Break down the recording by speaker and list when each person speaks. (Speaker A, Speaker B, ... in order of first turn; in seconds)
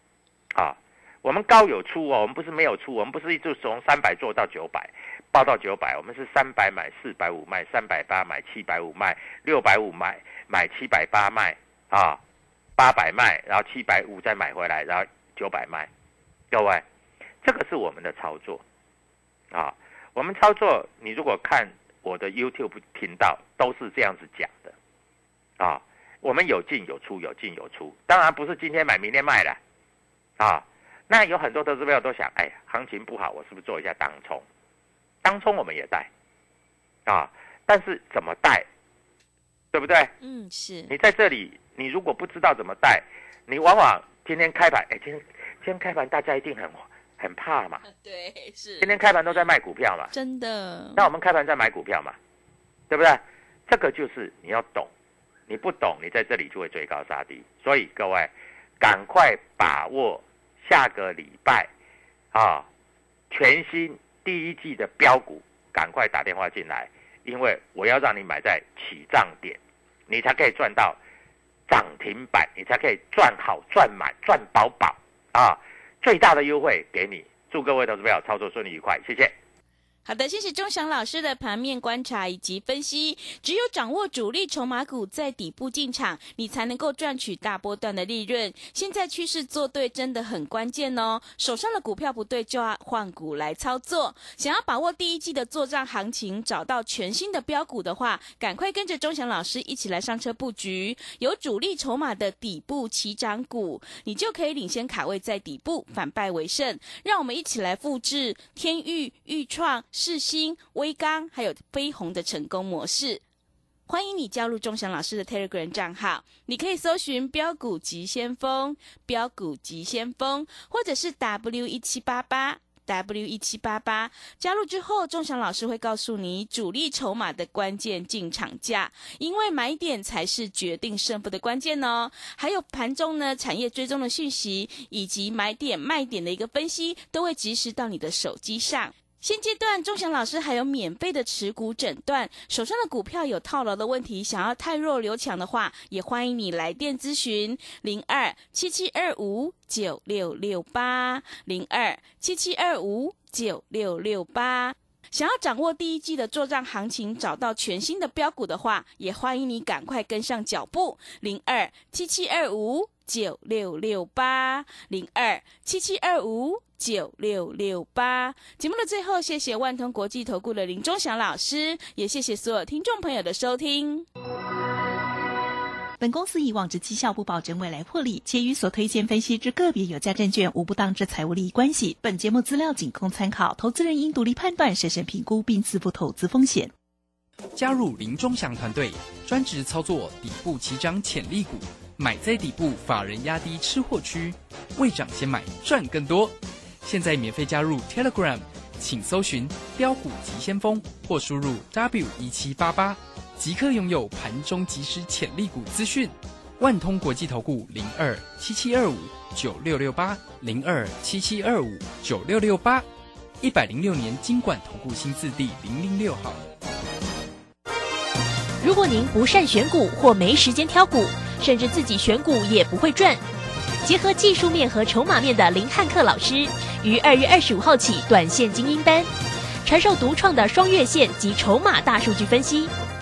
Speaker A: 0.6-12.2, 12.8-15.9, 16.5-16.8, 17.4-18.6, 19.5-24.8, 25.6-29.6, 30.4-34.5, 35.2-36.1, 37.1-38.7, 39.7-40.1, 40.9-47.9, 48.8-50.1, 51.0-52.2, 52.9-54.9, 55.5-61.7, 62.3-62.7, 63.3-71.0, 71.7-79.3
Speaker B: 40.2-40.9, 47.9-49.0, 50.1-51.1, 80.0-113.2, 113.9-174.1
Speaker C: 176.0-186.7
Speaker D: 187.6-212.8, 213.4-216.4
Speaker E: 218.6-223.2, 223.8-229.1, 229.7-232.7